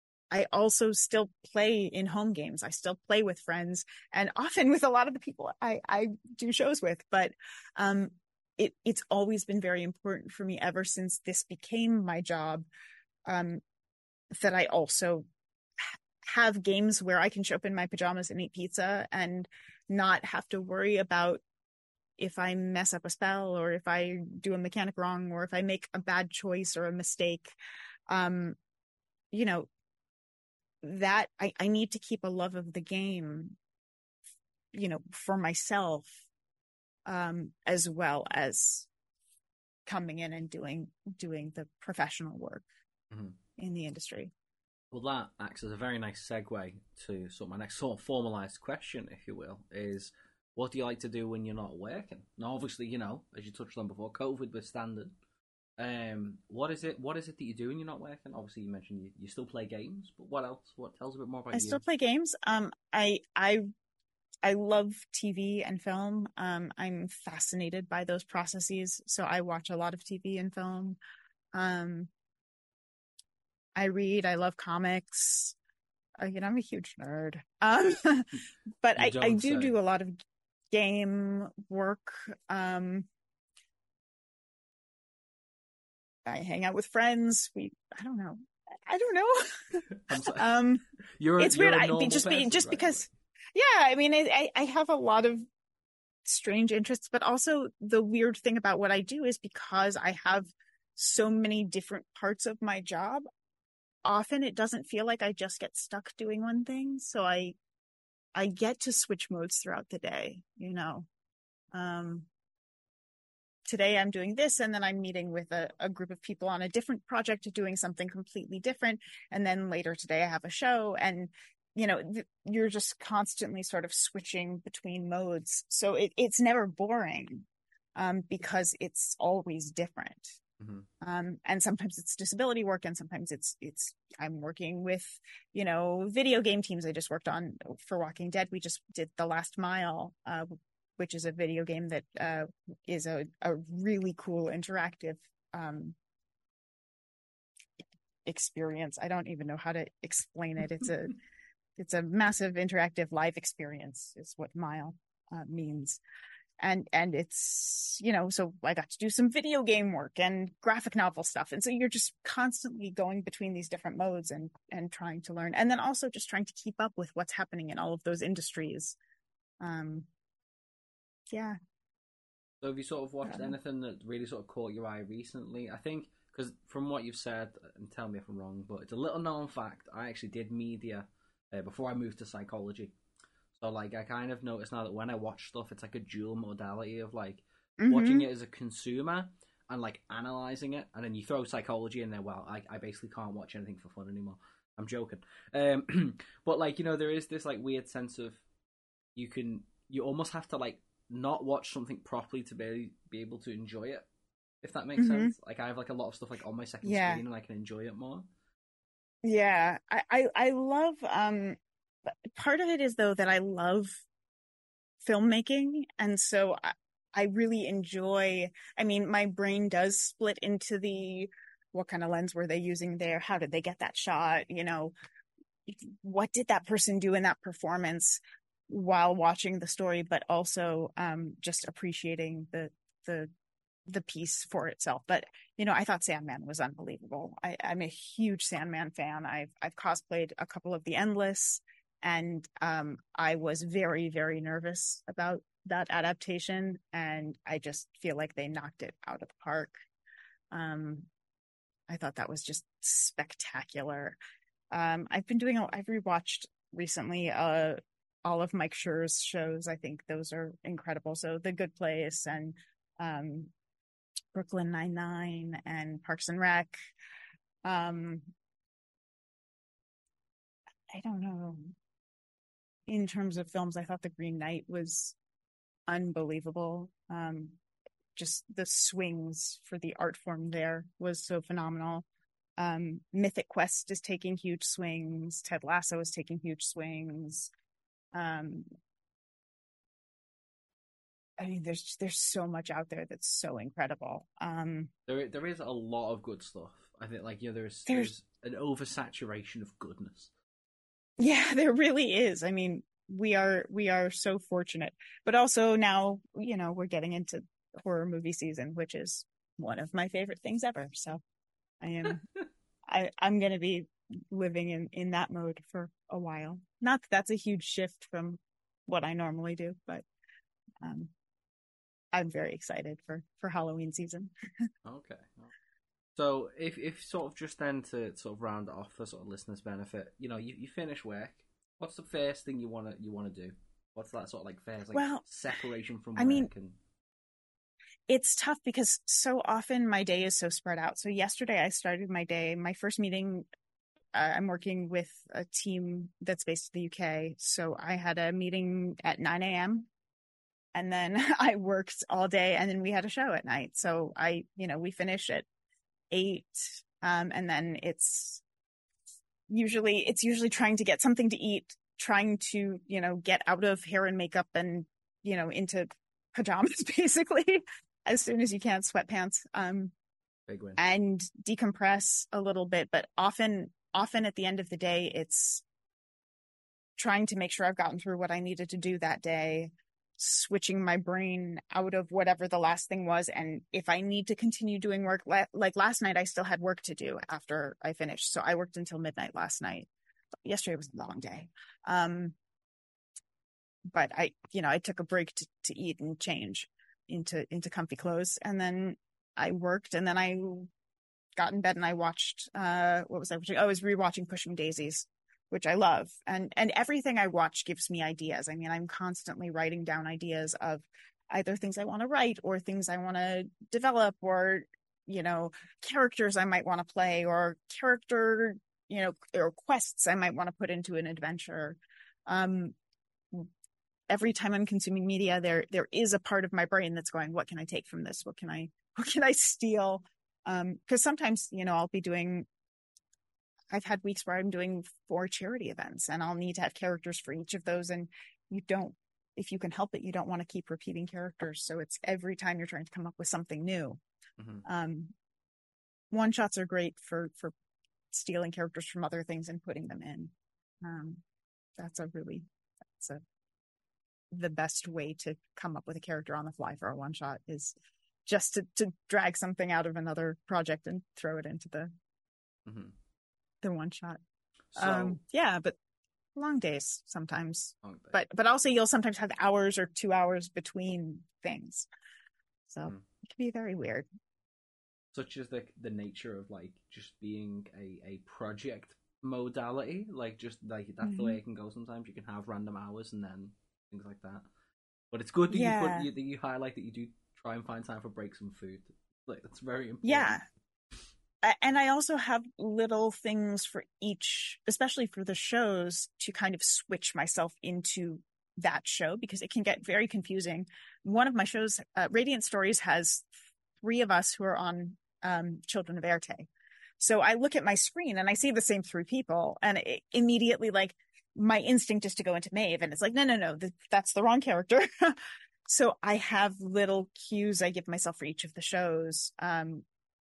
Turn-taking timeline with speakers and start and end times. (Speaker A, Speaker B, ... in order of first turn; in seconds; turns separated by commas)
Speaker A: 0.3-12.7, Speaker A: 13.3-13.6, Speaker A: 14.3-15.2, Speaker A: 15.8-21.4, Speaker A: 22.2-27.5, Speaker A: 28.1-28.6, Speaker A: 29.3-29.7, Speaker A: 30.8-33.6, Speaker A: 34.7-36.2, Speaker A: 37.1-38.9, Speaker A: 39.9-42.6, Speaker B: 43.1-43.4, Speaker A: 43.6-44.3, Speaker B: 44.9-55.1, Speaker B: 55.8-61.8, Speaker A: 61.5-63.6, Speaker A: 64.4-71.0, Speaker A: 71.5-72.1, Speaker A: 73.8-75.6, Speaker A: 76.2-80.2, Speaker B: 79.0-79.8, Speaker A: 80.7-83.1, Speaker A: 86.3-90.8, Speaker B: 89.9-90.5, Speaker B: 91.2-93.1, Speaker A: 91.4-95.5, Speaker A: 96.2-103.2, Speaker A: 104.0-107.6, Speaker A: 108.3-111.1, Speaker A: 111.7-112.3, Speaker A: 113.7-130.4, Speaker B: 130.6-130.9, Speaker A: 131.0-146.0, Speaker A: 148.3-151.2, Speaker A: 151.8-156.0, Speaker A: 156.6-169.0, Speaker A: 169.6-170.1, Speaker A: 171.3-171.6, Speaker B: 172.6-182.9, Speaker A: 173.2-173.6, Speaker B: 183.6-198.4, Speaker A: 187.8-188.3, Speaker B: 199.2-204.1, Speaker B: 204.6-208.3, Speaker A: 205.0-205.3, Speaker A: 206.8-207.2, Speaker A: 209.2-214.0, Speaker A: 215.0-224.9, Speaker A: 225.7-233.3, Speaker A: 233.9-249.8, Speaker A: 250.5-251.1, Speaker A: 251.9-254.2, Speaker A: 254.7-263.5, Speaker A: 264.3-266.8, Speaker A: 267.6-268.3, Speaker A: 270.9-271.7, Speaker A: 272.9-275.2, Speaker A: 275.9-277.6, Speaker A: 278.2-282.1, Speaker A: 282.6-287.5, Speaker A: 288.1-288.7, Speaker A: 291.4-294.9, Speaker B: 295.1-300.3, Speaker A: 301.2-311.2, Speaker A: 311.8-312.2, Speaker A: 312.9-320.1, Speaker A: 320.8-321.1, Speaker A: 322.1-324.3, Speaker B: 324.9-325.5, Speaker B: 326.2-336.8, Speaker A: 334.9-335.2, Speaker A: 336.2-336.5, Speaker A: 338.1-343.5, Speaker A: 344.1-349.9, Speaker A: 350.7-355.5, Speaker A: 356.1-358.4, Speaker A: 359.5-369.9, Speaker B: 370.5-370.8, Speaker A: 370.8-375.6, Speaker A: 377.0-389.9, Speaker A: 390.4-392.4, Speaker A: 393.9-400.7, Speaker A: 401.4-422.8, Speaker A: 424.1-432.5, Speaker A: 433.7-444.0, Speaker B: 444.4-444.6, Speaker A: 444.6-445.1, Speaker A: 446.1-447.5, Speaker A: 448.1-451.2, Speaker A: 451.8-452.5, Speaker A: 454.3-461.9, Speaker B: 462.7-462.9, Speaker A: 463.6-464.2, Speaker B: 464.7-465.2, Speaker A: 464.8-465.8, Speaker A: 466.4-471.9, Speaker B: 467.8-468.1, Speaker A: 472.7-474.1, Speaker B: 475.1-484.4, Speaker A: 481.0-481.4, Speaker B: 485.1-490.3, Speaker A: 485.5-486.1, Speaker A: 490.0-490.4, Speaker A: 491.4-503.3, Speaker A: 503.8-506.5, Speaker A: 507.0-519.9